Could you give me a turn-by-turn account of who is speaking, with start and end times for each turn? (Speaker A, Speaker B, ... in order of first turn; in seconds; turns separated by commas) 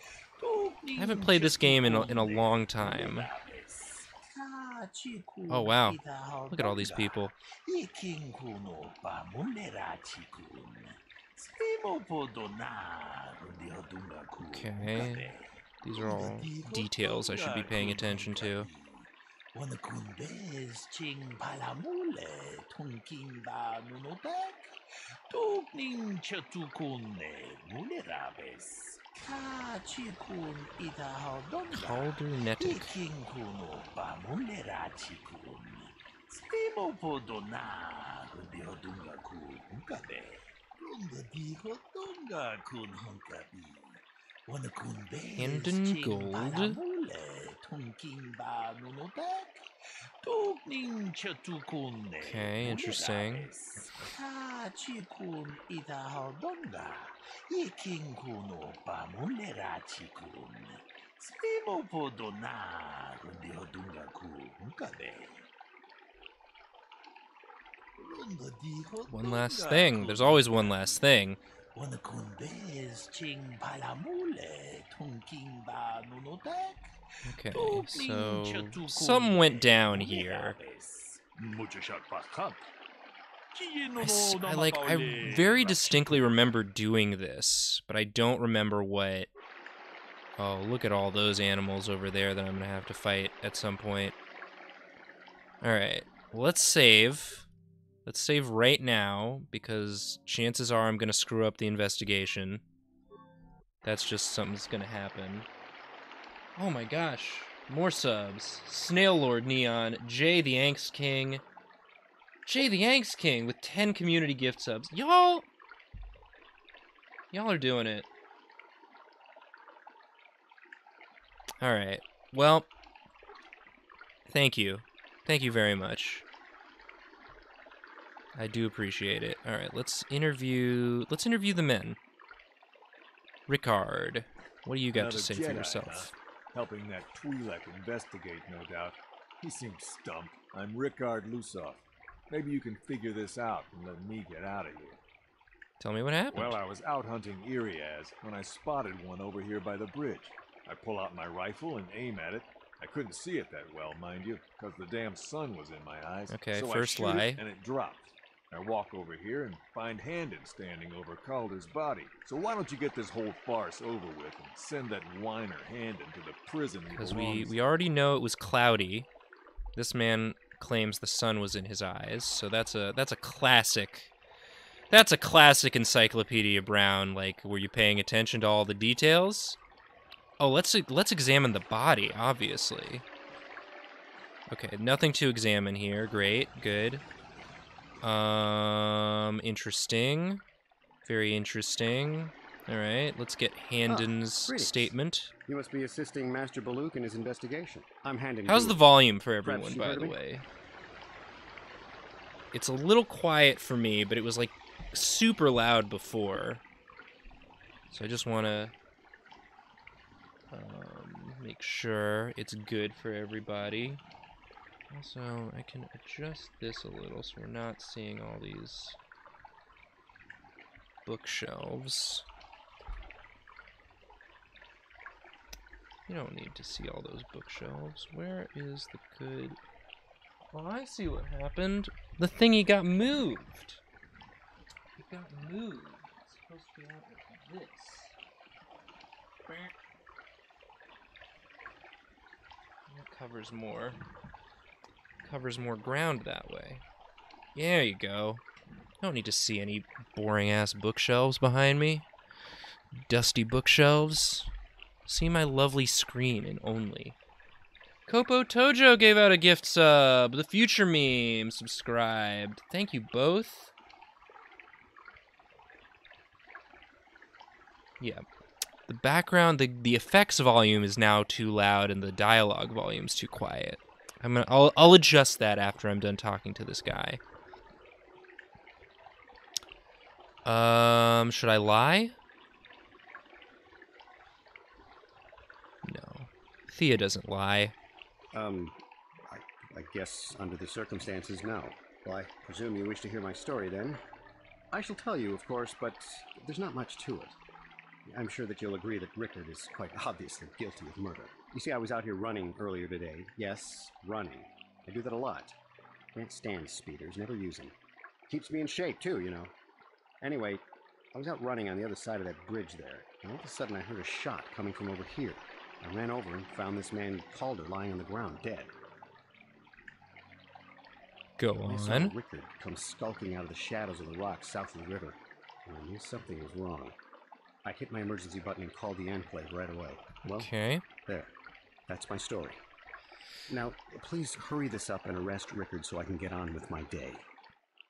Speaker A: 0.4-24.8, Speaker B: 1.0-3.3, Speaker B: 5.5-6.0, Speaker B: 6.5-7.3, Speaker B: 14.5-15.3, Speaker B: 15.8-18.7, Speaker A: 25.3-49.7, Speaker B: 31.7-33.0, Speaker B: 45.4-46.8, Speaker A: 50.2-65.5, Speaker B: 52.2-53.5, Speaker A: 68.0-71.1, Speaker B: 69.1-71.4, Speaker A: 71.8-82.7, Speaker B: 77.2-80.6, Speaker A: 83.5-86.3, Speaker B: 84.0-89.3, Speaker B: 90.4-94.2, Speaker B: 95.6-97.5, Speaker B: 98.0-102.6, Speaker B: 103.8-105.5, Speaker B: 106.6-111.4, Speaker B: 112.5-115.5, Speaker B: 117.3-118.1, Speaker B: 121.6-122.7, Speaker B: 124.3-126.2, Speaker B: 128.3-132.0, Speaker B: 133.5-136.1, Speaker C: 134.9-145.0, Speaker B: 145.8-146.6, Speaker C: 146.3-167.6, Speaker B: 156.3-157.4, Speaker B: 166.9-169.1, Speaker B: 169.8-174.1, Speaker B: 174.9-179.6, Speaker B: 180.4-183.1, Speaker B: 184.5-187.0, Speaker B: 188.0-190.4, Speaker B: 191.0-195.3, Speaker D: 193.9-194.9, Speaker D: 195.5-198.8, Speaker B: 198.5-200.5, Speaker D: 199.4-200.2, Speaker B: 202.5-206.6, Speaker B: 207.9-208.7, Speaker B: 210.5-214.0, Speaker B: 214.9-219.0, Speaker B: 221.1-222.2, Speaker B: 226.1-229.6, Speaker B: 230.5-233.8, Speaker B: 235.0-238.2, Speaker B: 239.5-239.7, Speaker B: 242.9-244.0, Speaker B: 245.2-246.8, Speaker B: 247.6-248.4, Speaker B: 249.0-252.1, Speaker B: 253.0-254.5, Speaker B: 255.1-257.2, Speaker B: 258.1-263.7, Speaker B: 268.9-277.2, Speaker B: 280.4-282.1, Speaker B: 285.8-287.7, Speaker D: 288.3-294.0, Speaker D: 294.7-297.4, Speaker D: 298.1-305.6, Speaker D: 306.1-307.8, Speaker D: 308.3-309.5, Speaker D: 310.2-310.6, Speaker D: 311.1-318.7, Speaker B: 321.4-322.1, Speaker D: 321.7-327.0, Speaker D: 327.6-330.5, Speaker B: 330.3-330.8, Speaker D: 331.1-331.3, Speaker D: 331.9-332.6, Speaker D: 333.5-337.3